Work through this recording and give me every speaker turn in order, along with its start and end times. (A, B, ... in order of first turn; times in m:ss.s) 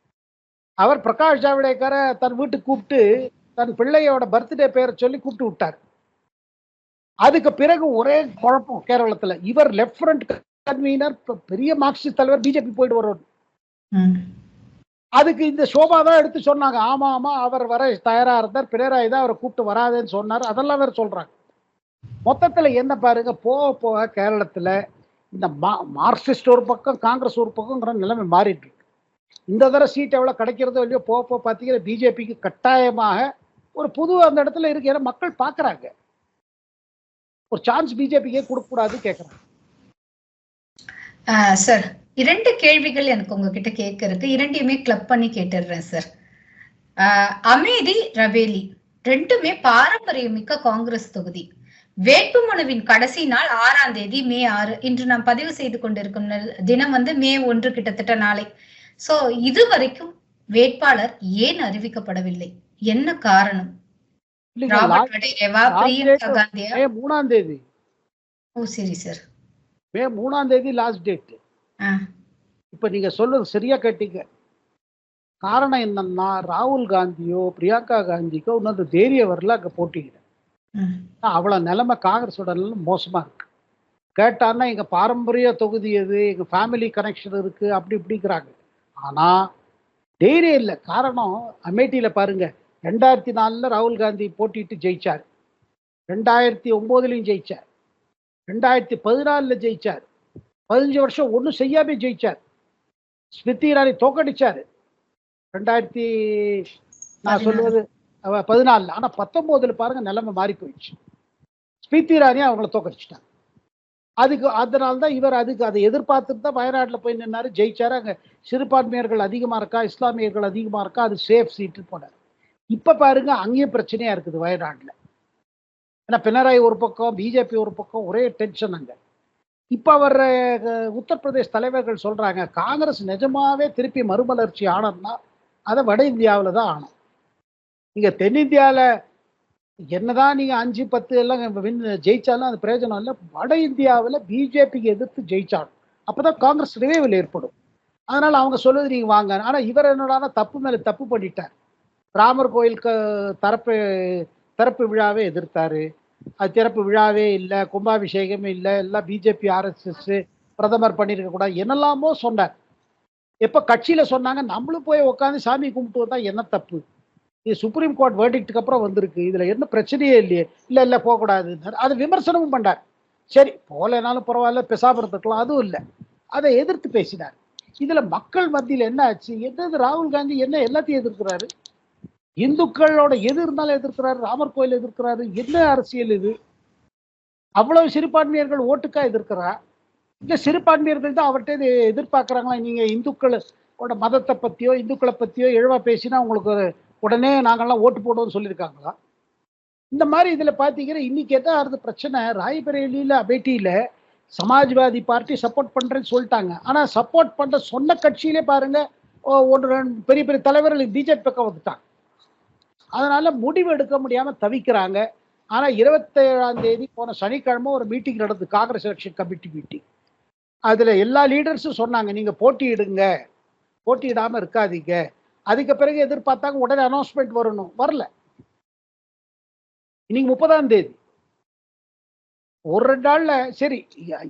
0:00.8-0:05.8 A
0:07.2-0:13.2 A
0:13.9-0:14.2 B
0:15.2-0:21.3 A
0:22.2-0:24.7 A
0:25.3-0:28.8 A
0:29.5-0:33.2 A
0:33.8-0:35.9 A
0:37.5-0:39.4 A
0:41.3-0:46.0 B
0:47.0-0:51.4 B
0:52.1-0:58.5 B
0:59.0-1:03.7 B
1:04.6-1:05.1 A
1:04.7-1:06.8 B
1:05.7-1:07.6 A
1:08.6-1:09.2 B
1:09.9-1:11.4 A
1:12.7-1:14.2 A
1:15.4-1:20.2 A
1:20.8-1:21.0 B
1:21.2-1:23.5 A
1:24.2-1:28.5 A
1:29.0-1:29.4 A
1:30.2-1:35.2 A
1:36.1-1:37.6 A
1:38.5-1:40.0 A
1:40.7-1:42.4 A
1:43.3-1:44.6 A
1:45.5-1:46.6 A
1:47.2-1:47.7 B
1:47.3-1:50.9 A
1:51.8-1:53.2 A
1:54.2-2:02.1 A
2:02.7-2:04.9 A
2:06.1-2:09.0 A
2:09.7-2:15.2 A
2:15.7-2:16.9 A
2:18.0-2:18.8 A
2:20.0-2:27.5 A
2:28.1-2:31.5 A
2:32.2-2:33.7 A
2:34.6-2:35.8 A
2:36.4-2:42.5 A
2:43.4-2:46.8 A
2:47.5-2:52.8 A
2:53.3-2:55.8 A
2:56.3-3:01.5 A
3:02.4-3:06.3 A
3:07.6-3:09.5 A
3:10.2-3:18.9 A
3:19.9-3:23.7 A
3:24.4-3:28.8 A
3:29.3-3:31.8 A
3:33.0-3:35.0 A
3:35.5-3:39.8 A
3:40.7-3:43.0 A
3:43.9-3:45.0 A
3:45.5-3:48.0 A
3:50.1-3:51.0 A
3:52.7-3:53.8 A